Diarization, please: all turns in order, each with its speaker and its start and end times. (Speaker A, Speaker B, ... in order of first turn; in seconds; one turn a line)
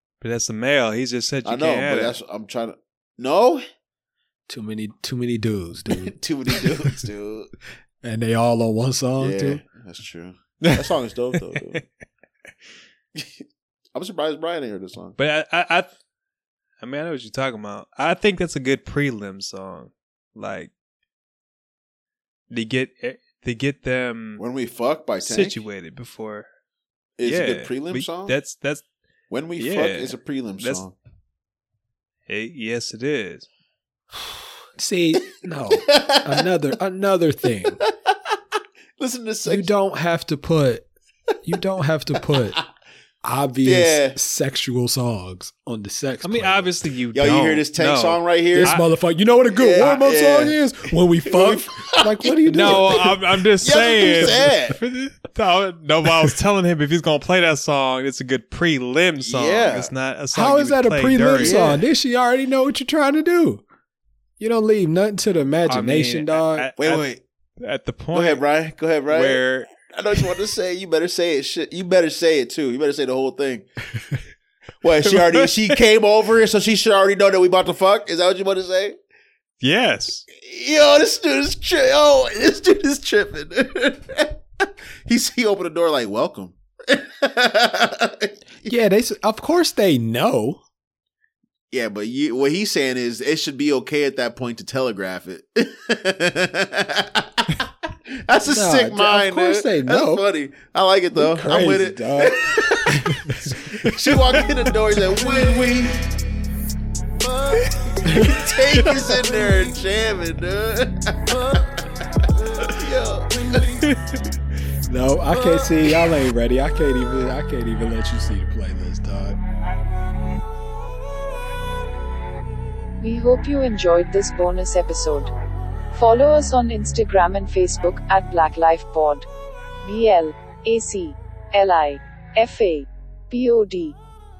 Speaker A: 0.2-2.1
Speaker B: 1.4-3.6
Speaker C: 4.5-6.7
Speaker B: 5.9-7.5
Speaker C: 8.0-9.6
Speaker B: 9.2-11.8
Speaker B: 13.9-15.2
Speaker A: 15.2-15.9
Speaker A: 16.8-20.7
Speaker A: 22.5-24.4
Speaker B: 24.4-25.6
Speaker A: 25.2-26.5
Speaker B: 27.2-28.3
Speaker A: 27.2-28.8
Speaker B: 29.3-30.9
Speaker A: 29.6-30.8
Speaker A: 32.3-33.5
Speaker C: 34.8-37.8
Speaker B: 35.9-36.4
Speaker B: 37.8-38.1
Speaker B: 39.0-39.7
Speaker C: 39.5-40.9
Speaker C: 41.4-42.6
Speaker C: 43.2-46.7
Speaker B: 43.6-44.2
Speaker A: 46.2-48.8
Speaker B: 47.1-48.8
Speaker C: 48.5-53.1
Speaker B: 49.5-50.6
Speaker B: 51.3-54.8
Speaker A: 52.5-61.8
Speaker B: 59.2-59.9
Speaker C: 60.3-63.6
Speaker B: 61.4-61.8
Speaker C: 64.4-66.7
Speaker A: 65.7-67.1
Speaker B: 66.8-67.2
Speaker A: 67.6-68.4
Speaker B: 68.1-73.7
Speaker A: 69.1-69.7
Speaker B: 74.8-79.0
Speaker A: 79.6-80.2
Speaker B: 80.3-88.7
Speaker C: 88.6-90.6
Speaker B: 91.7-106.0
Speaker C: 98.5-100.2
Speaker C: 101.1-104.0
Speaker B: 107.2-111.6
Speaker C: 108.1-108.4
Speaker B: 112.3-113.7
Speaker C: 114.8-119.4
Speaker D: 123.0-125.3
Speaker D: 125.9-129.3
Speaker D: 129.8-133.9